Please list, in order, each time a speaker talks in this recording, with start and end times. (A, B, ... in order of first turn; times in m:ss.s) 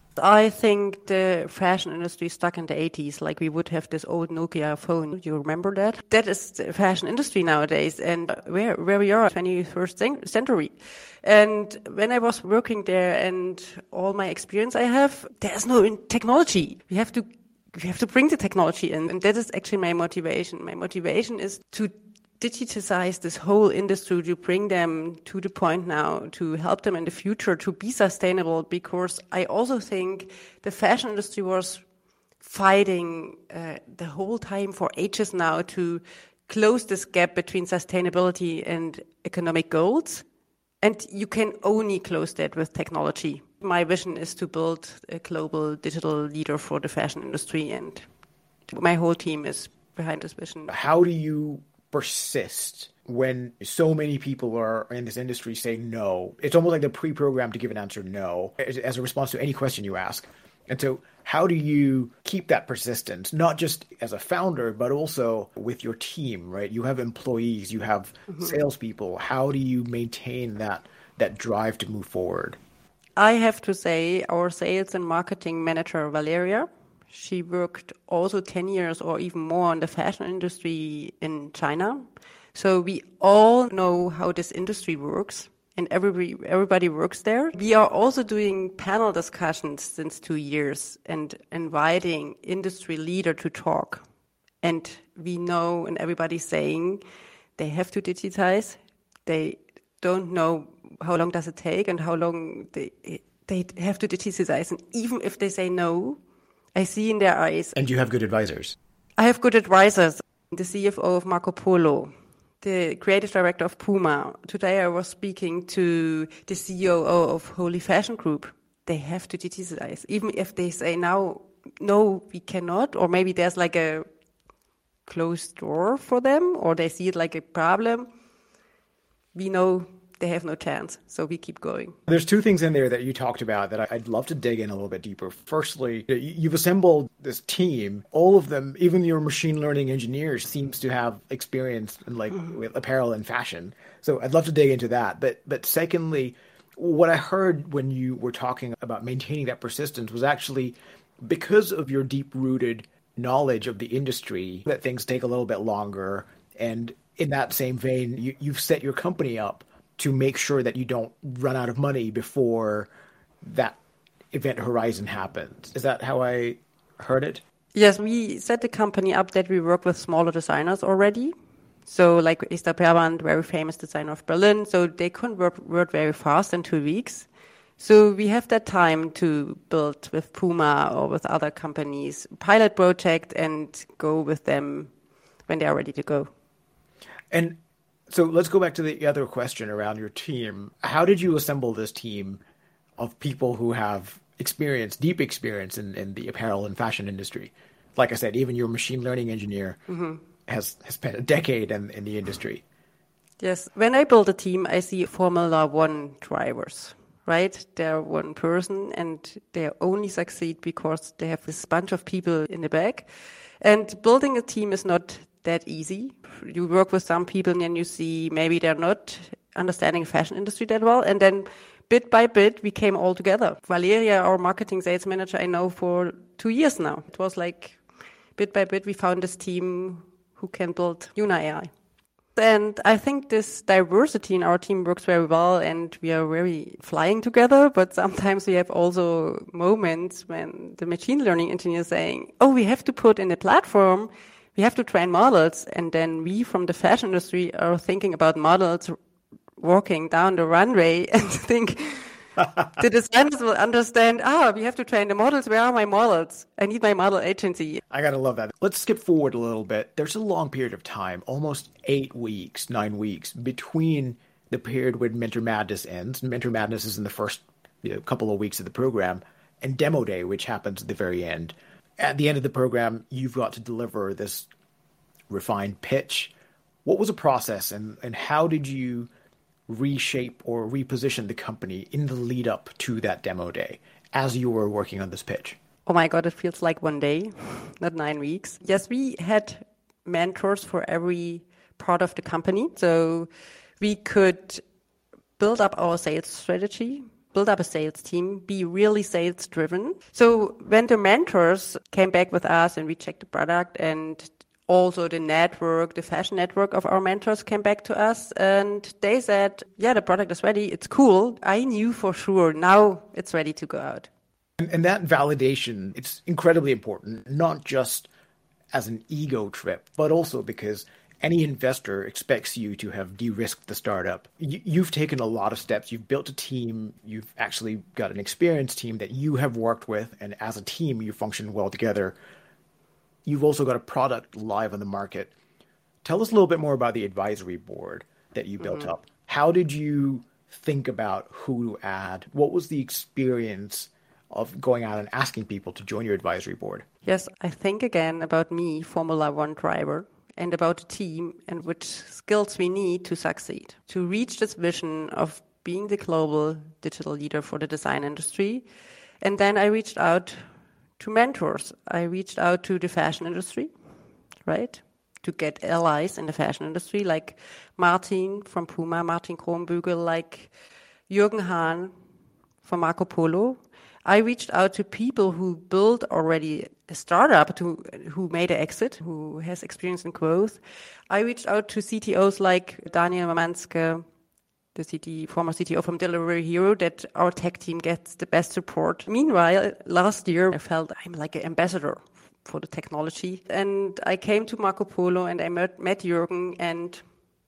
0:00.2-0:31.8 A
0:32.4-0:40.2 A
0:40.8-0:48.1 A
0:48.7-0:50.7 A
0:50.7-1:12.6 B
1:13.2-1:34.0 A
1:34.6-1:37.0 A
1:37.6-1:46.2 A
1:46.8-1:47.8 A
1:47.8-1:48.8 B
1:49.2-1:52.1 A
1:52.6-2:04.0 A
2:05.1-2:08.1 A
2:09.4-2:12.0 A
2:12.1-2:42.9 B
2:43.4-2:43.8 B
2:44.3-2:47.4 B
2:47.7-2:51.3 A
2:51.9-2:57.3 A
2:57.8-3:04.9 A
3:05.5-3:06.3 A
3:07.3-3:07.6 B
3:08.1-3:12.4 B
3:13.0-3:19.8 B
3:19.9-3:20.2 A
3:20.5-3:22.6 B
3:23.4-3:33.1 A
3:33.6-3:47.8 A
3:48.4-3:51.7 A
3:52.4-4:09.0 A
4:09.6-4:17.8 A
4:17.9-4:34.5 B
4:35.3-4:36.3 B
4:36.8-4:39.1 B
4:39.7-4:45.6 B
4:45.9-4:54.6 A
4:55.4-5:14.1 A
5:14.6-5:18.1 B
5:18.7-5:32.2 B
5:33.3-5:35.3 B
5:36.0-5:46.8 B
5:38.6-5:38.9 A
5:47.0-5:58.7 A
5:59.2-6:00.4 A
6:01.0-6:03.7 A
6:04.4-6:10.5 A
6:11.1-6:11.9 A
6:12.6-6:24.0 A
6:24.7-6:37.0 A